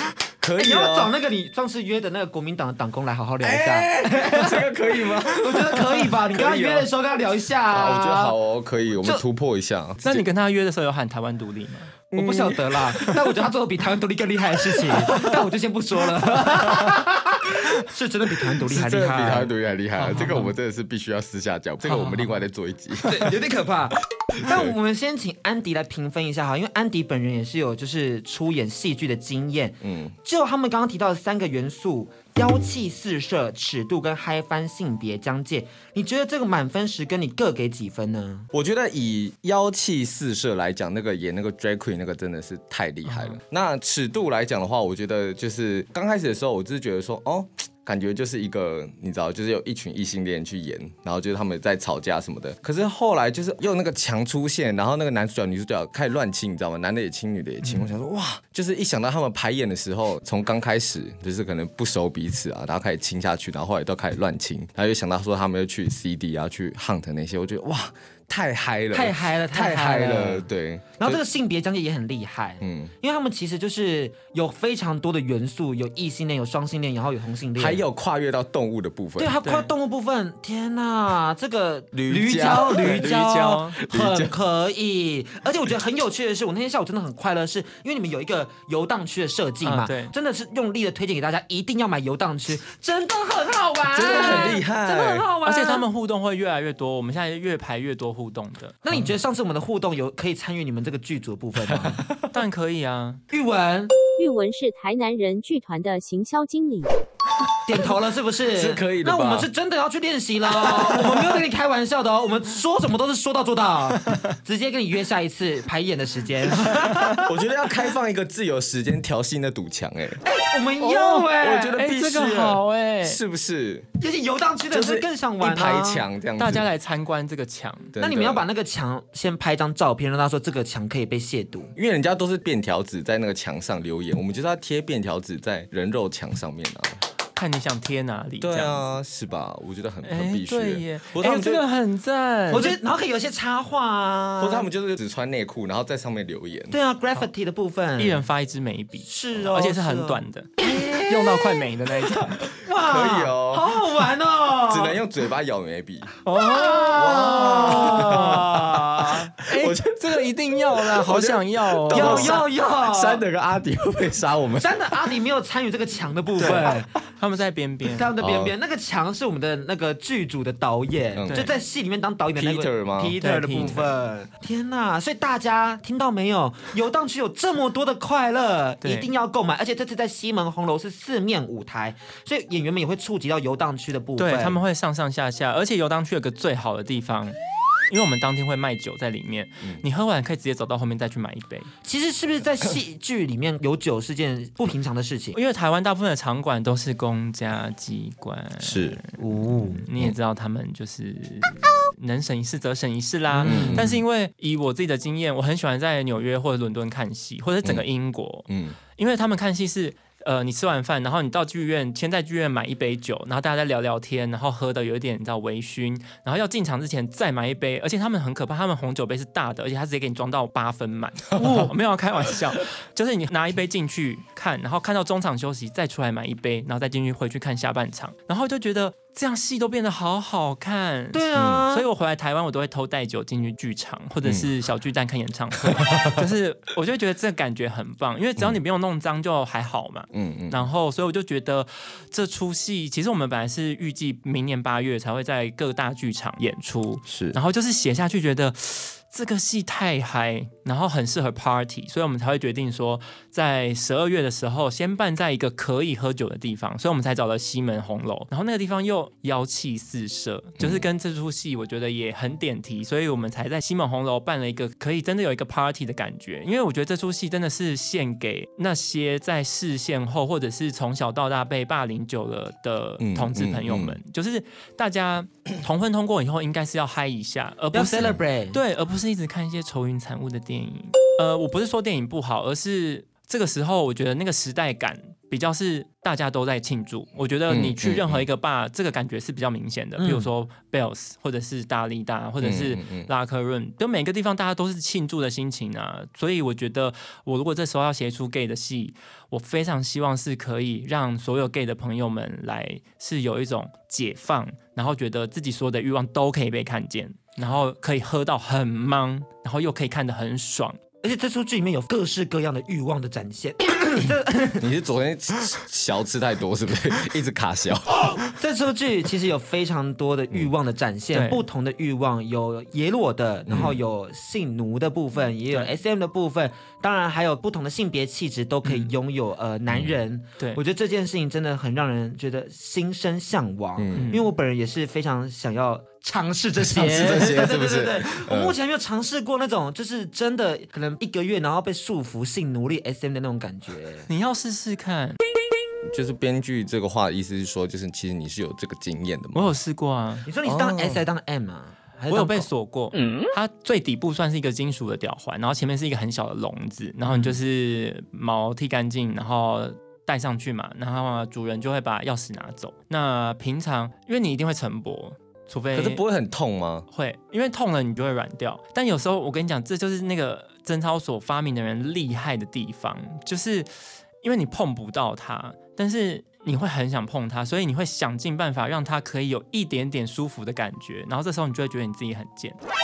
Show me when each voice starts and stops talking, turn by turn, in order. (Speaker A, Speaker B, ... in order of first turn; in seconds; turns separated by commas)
Speaker A: 0.4-1.1, Speaker B: 0.6-8.4, Speaker A: 3.4-6.9, Speaker A: 7.7-10.3, Speaker C: 10.0-12.0, Speaker A: 12.1-12.7, Speaker B: 12.1-19.5, Speaker A: 18.6-23.4, Speaker C: 20.0-20.5, Speaker C: 21.9-22.4, Speaker B: 23.0-38.5, Speaker A: 24.4-24.8, Speaker A: 29.8-30.2, Speaker A: 38.5-71.2, Speaker C: 43.0-43.4, Speaker B: 68.9-70.5, Speaker B: 71.0-77.8, Speaker A: 72.6-72.9, Speaker A: 77.6-79.4, Speaker B: 79.2-95.9, Speaker C: 79.4-79.7, Speaker A: 81.9-84.3, Speaker C: 82.7-83.8, Speaker C: 89.6-90.1, Speaker A: 93.9-95.3, Speaker C: 94.3-94.5, Speaker C: 95.5-98.8, Speaker B: 98.8-102.0, Speaker A: 101.7-102.3, Speaker C: 102.3-103.2, Speaker B: 103.3-103.9, Speaker D: 104.2-106.9, Speaker B: 107.7-117.3, Speaker A: 108.5-109.5, Speaker C: 116.9-117.2, Speaker A: 117.2-120.2, Speaker B: 120.2-121.8, Speaker C: 120.8-123.2, Speaker A: 121.3-123.9, Speaker B: 124.0-126.0, Speaker A: 124.7-126.7, Speaker C: 126.4-127.9, Speaker A: 127.9-128.4, Speaker B: 128.0-131.7, Speaker A: 131.8-137.0, Speaker C: 137.4-138.8, Speaker A: 138.4-141.6, Speaker C: 140.0-142.8, Speaker B: 142.5-144.7, Speaker A: 144.4-146.8, Speaker B: 146.7-148.2, Speaker C: 148.0-152.5, Speaker B: 149.1-151.7, Speaker B: 152.6-155.0, Speaker A: 152.7-153.8, Speaker A: 154.7-156.1, Speaker C: 156.2-158.5, Speaker B: 156.3-159.3, Speaker A: 156.9-165.1, Speaker C: 159.3-162.4, Speaker B: 161.9-163.2, Speaker B: 164.6-166.9, Speaker C: 166.4-168.1, Speaker B: 167.9-184.6, Speaker A: 168.2-168.5, Speaker A: 171.2-171.5, Speaker C: 171.3-171.5, Speaker A: 172.4-173.2, Speaker C: 173.2-173.9, Speaker C: 178.8-179.1, Speaker C: 184.2-187.3, Speaker C: 187.9-191.7, Speaker B: 191.8-195.4, Speaker C: 195.3-310.8, Speaker A: 198.6-199.0, Speaker B: 199.2-199.8, Speaker B: 203.3-204.0, Speaker A: 203.4-204.0, Speaker A: 208.5-208.8, Speaker A: 221.4-221.7, Speaker B: 231.1-231.9, Speaker A: 231.3-231.7, Speaker A: 234.2-234.5, Speaker A: 235.7-236.3, Speaker A: 240.1-240.7, Speaker A: 247.1-247.4, Speaker A: 260.6-260.9, Speaker A: 273.0-274.0, Speaker B: 277.7-278.6, Speaker A: 287.5-288.3, Speaker B: 290.0-290.3, Speaker A: 292.4-293.1, Speaker B: 311.0-314.6, Speaker A: 314.6-318.2, Speaker B: 318.4-344.1, Speaker C: 321.1-321.4, Speaker A: 323.5-323.8, Speaker C: 328.6-328.9, Speaker A: 329.7-330.0, Speaker A: 333.8-334.1, Speaker C: 333.9-334.3, Speaker A: 336.6-338.6, Speaker C: 344.1-345.2, Speaker A: 345.8-349.6, Speaker C: 349.3-350.3, Speaker B: 350.3-352.5, Speaker A: 350.4-351.0, Speaker C: 352.1-366.0, Speaker A: 365.7-366.9, Speaker C: 366.9-373.7, Speaker C: 374.2-382.6